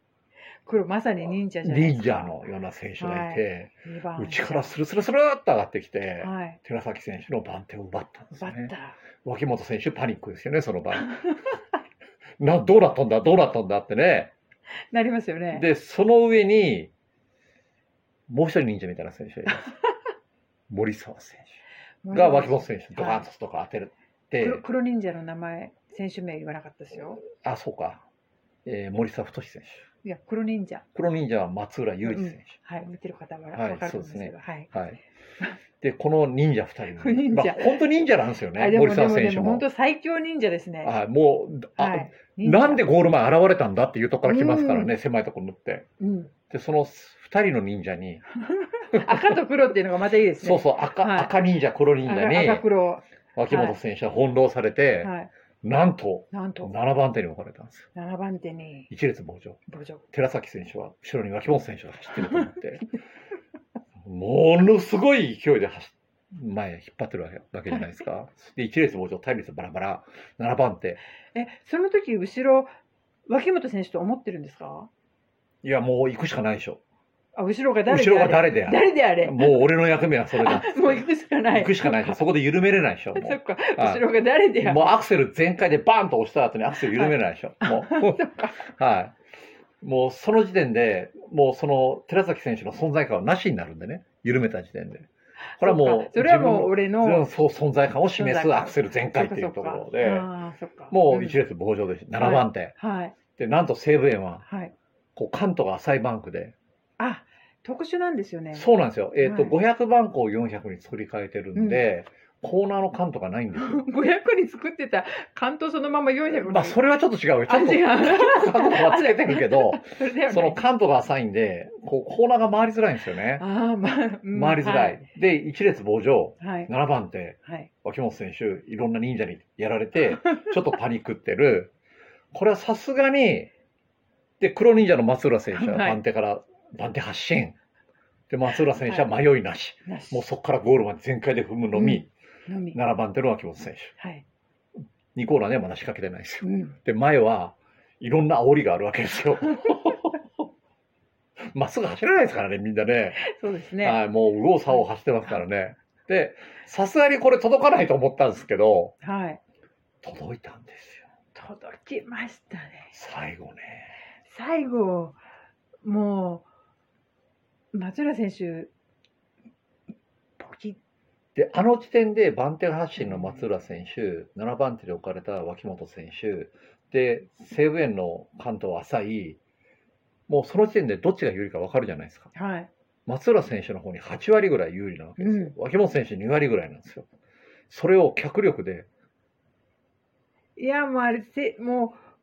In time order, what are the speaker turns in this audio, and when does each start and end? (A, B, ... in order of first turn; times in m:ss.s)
0:00.6-0:02.4 A
0:01.6-0:11.3 B
0:03.0-0:04.7 A
0:06.2-0:06.6 A
0:08.4-0:09.0 A
0:12.4-0:14.3 B
0:14.9-0:15.6 A
0:15.5-0:16.9 B
0:18.3-0:19.7 B
0:20.7-0:21.6 B
0:22.0-0:23.3 A
0:22.1-0:24.6 B
0:24.4-0:27.2 A
0:27.4-0:28.0 B
0:28.6-0:29.8 B
0:30.0-0:30.8 A
0:30.9-0:32.6 B
0:32.0-0:34.7 A
0:33.5-0:35.0 B
0:35.8-0:39.7 B
0:37.0-0:37.8 A
0:38.5-0:40.9 A
0:40.8-0:45.9 B
0:41.8-0:42.8 A
0:44.2-0:44.9 A
0:46.0-0:46.3 A
0:46.5-0:48.2 B
0:48.4-0:51.3 A
0:48.9-0:49.3 B
0:50.4-0:52.7 B
0:52.0-0:53.8 A
0:53.4-0:55.1 B
0:55.0-0:55.3 A
0:55.6-0:57.9 B
0:56.3-0:56.7 A
0:57.9-0:58.9 A
0:58.9-0:59.6 B
0:59.7-1:00.0 A
1:00.1-1:02.8 B
1:04.0-1:11.0 B
1:11.3-1:12.7 A
1:13.3-1:14.9 A
1:15.6-1:16.8 B
1:17.3-1:19.7 A
1:17.8-1:24.1 B
1:20.4-1:22.2 A
1:23.1-1:24.9 A
1:24.6-1:29.2 B
1:26.9-1:28.7 A
1:29.8-1:40.3 B
1:35.5-1:37.3 A
1:38.1-1:41.4 A
1:40.9-1:42.8 B
1:42.2-1:43.1 A
1:43.4-1:44.4 B
1:44.4-1:44.7 A
1:45.2-1:46.6 B
1:47.0-1:48.7 A
1:48.5-1:53.8 B
1:49.2-1:49.5 A
1:51.5-1:51.9 A
1:53.6-1:56.8 A
1:56.4-2:03.4 B
1:57.4-2:00.6 A
2:03.4-2:05.0 A
2:04.3-2:11.7 B
2:06.4-2:06.7 A
2:07.4-2:07.7 A
2:12.3-2:13.5 B
2:14.4-2:17.6 B
2:15.5-2:16.0 A
2:18.3-2:22.1 B
2:19.9-2:20.2 A
2:21.7-2:22.8 A
2:22.7-2:23.9 B
2:24.0-2:24.2 A
2:25.1-2:30.2 B
2:26.4-2:26.7 A
2:31.5-2:33.2 B
2:33.2-2:34.0 A
2:33.8-2:38.9 B
2:39.0-2:39.4 A
2:40.0-2:41.0 B
2:41.3-2:42.9 A
2:42.9-2:44.0 B
2:44.2-2:45.2 A
2:45.8-2:46.4 A
2:47.7-2:48.7 A
2:50.4-2:50.8 A
2:51.3-2:59.4 B
2:53.0-2:53.3 A
3:00.3-3:02.3 B
3:02.3-3:02.7 A
3:03.1-3:07.1 B
3:05.2-3:05.5 A
3:07.7-3:08.9 B
3:10.6-3:12.0 A